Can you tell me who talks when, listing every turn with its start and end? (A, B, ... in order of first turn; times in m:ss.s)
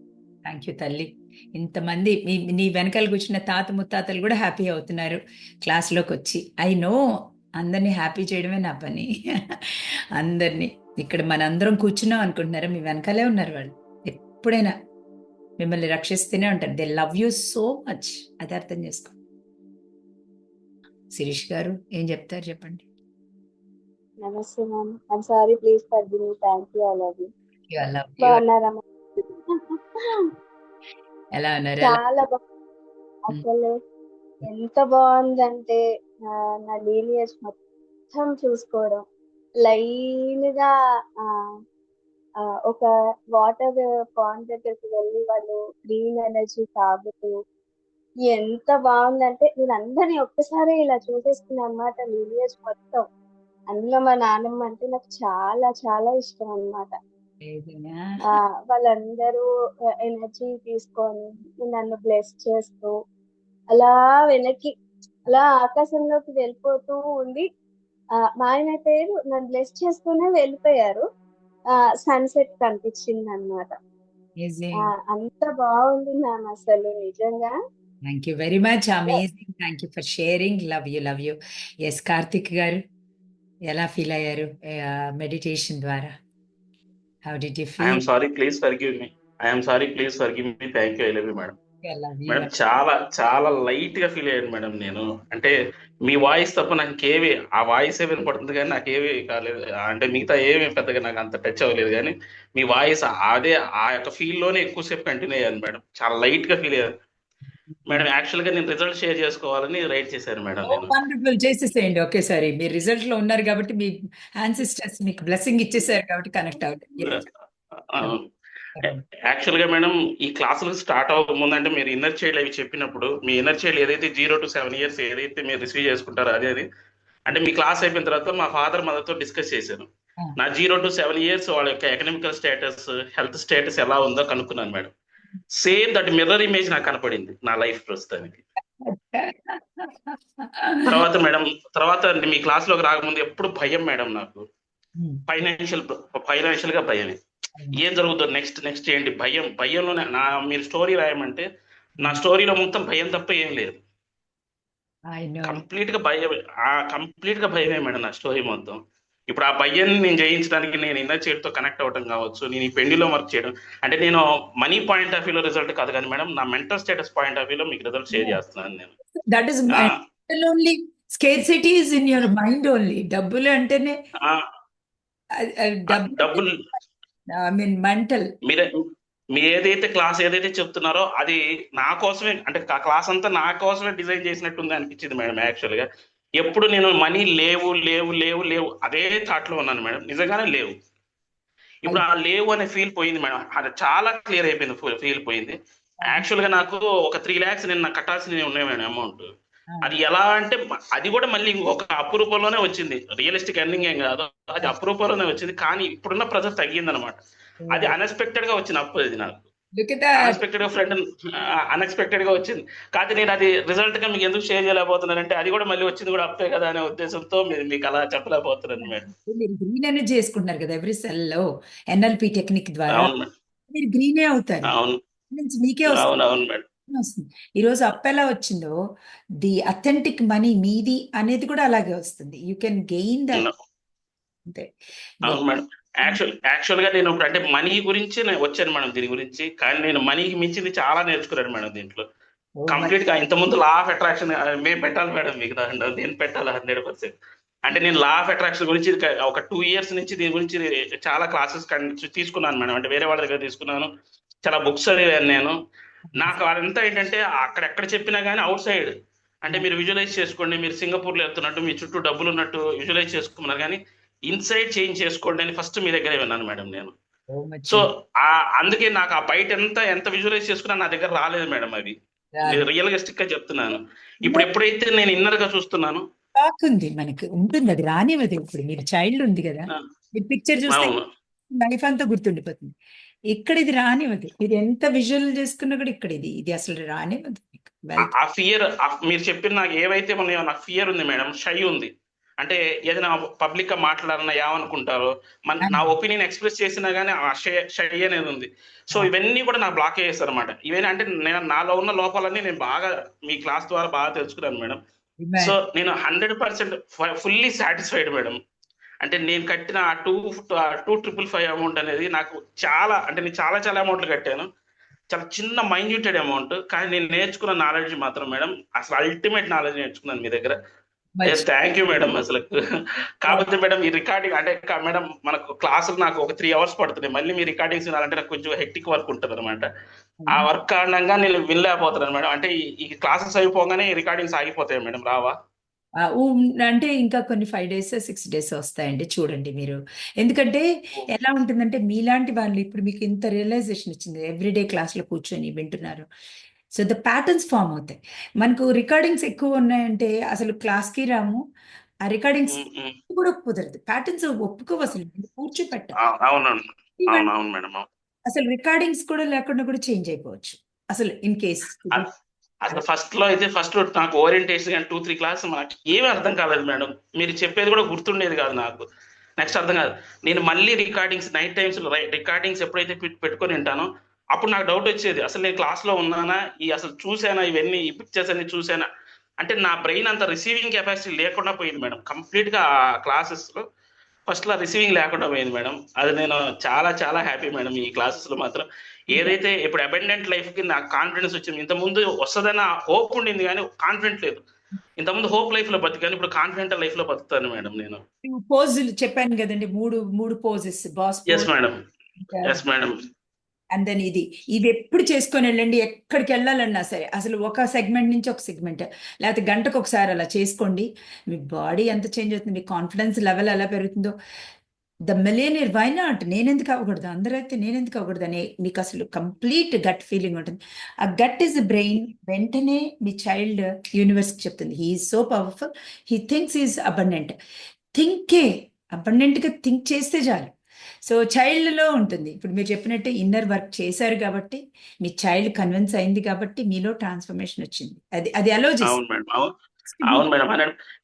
0:00.5-0:07.0 A
0:07.6-0:14.7 A
0:15.6-0:19.2 A
0:21.2-0:22.8 A
0:24.2-0:27.3 B
0:27.7-0:28.4 A
0:28.2-0:29.6 B
0:31.4-0:32.0 A
0:31.8-0:32.4 B
0:33.3-0:33.7 B
0:34.5-0:35.8 B
0:36.3-0:37.6 B
0:38.1-0:39.0 B
0:39.7-0:40.7 B
0:42.7-0:47.3 B
0:48.3-0:53.0 B
0:53.7-0:56.9 B
0:57.4-0:58.3 A
0:58.3-0:59.4 B
1:00.1-1:02.9 B
1:03.7-1:04.7 B
1:05.3-1:07.5 B
1:08.4-1:11.0 B
1:12.0-1:13.7 B
1:14.4-1:14.9 A
1:14.8-1:17.5 B
1:18.1-1:22.8 A
1:23.7-1:26.1 A
1:27.3-1:28.0 A
1:27.8-1:31.6 C
1:31.8-1:32.5 A
1:32.3-1:35.6 C
1:36.1-1:46.9 C
1:47.7-1:48.1 A
1:47.9-1:50.9 C
1:50.7-1:57.2 A
1:57.9-1:58.2 C
1:58.8-1:59.0 A
1:59.3-2:06.7 C
2:07.3-2:09.9 C
2:10.4-2:14.9 C
2:15.6-2:18.4 C
2:18.8-2:21.0 A
2:20.9-2:24.4 C
2:25.3-2:27.2 C
2:27.8-2:31.5 C
2:32.0-2:33.8 C
2:35.1-2:35.6 A
2:35.4-2:38.8 C
2:39.3-2:48.9 C
2:48.1-2:48.4 A
2:49.2-2:54.0 A
2:55.4-2:56.4 A
2:55.9-2:56.6 C
2:57.5-2:58.2 A
2:59.4-3:05.9 C
3:06.4-3:10.7 C
3:11.8-3:15.6 C
3:16.1-3:19.3 C
3:19.8-3:27.2 C
3:27.6-3:27.9 A
3:27.7-3:29.5 C
3:29.8-3:30.4 A
3:30.2-3:31.0 C
3:31.7-3:39.1 C
3:38.8-3:43.1 A
3:42.9-3:43.3 C
3:43.7-3:44.7 A
3:44.7-3:45.0 C
3:45.3-3:46.1 A
3:45.9-3:46.6 C
3:46.9-3:48.8 A
3:49.4-3:53.5 A
3:55.3-4:02.0 C
4:02.6-4:02.9 A
4:02.7-4:13.9 C
4:14.4-4:15.6 C
4:16.2-4:26.9 C
4:27.3-4:27.9 A
4:27.7-4:36.0 C
4:32.4-4:32.6 A
4:36.4-4:40.9 A
4:40.7-4:41.0 C
4:41.6-4:42.7 A
4:43.3-4:48.1 A
4:48.0-5:04.8 C
4:55.6-4:55.9 A
5:05.2-5:05.6 A
5:05.4-5:08.4 C
5:09.0-5:14.5 C
5:15.1-5:20.6 C
5:21.2-5:22.1 A
5:21.3-5:22.6 C
5:23.2-5:29.7 C
5:30.2-5:30.5 A
5:30.3-5:35.4 C
5:36.0-5:46.1 A
5:46.8-5:51.4 A
5:52.1-5:56.0 A
5:52.5-5:53.0 C
5:56.0-5:57.8 C
5:57.0-5:57.3 A
5:58.3-6:02.1 A
6:02.6-6:08.8 C
6:09.4-6:18.9 C
6:19.4-6:23.6 C
6:24.3-6:34.4 C
6:35.0-6:38.0 C
6:38.2-6:41.5 A
6:41.3-6:41.8 C
6:42.2-6:42.6 A
6:42.4-6:43.0 C
6:43.7-6:54.1 A
6:55.1-7:07.3 A
7:08.0-7:10.6 A
7:11.1-7:19.0 A
7:18.9-7:19.5 C
7:19.9-7:20.2 A
7:20.1-7:20.7 C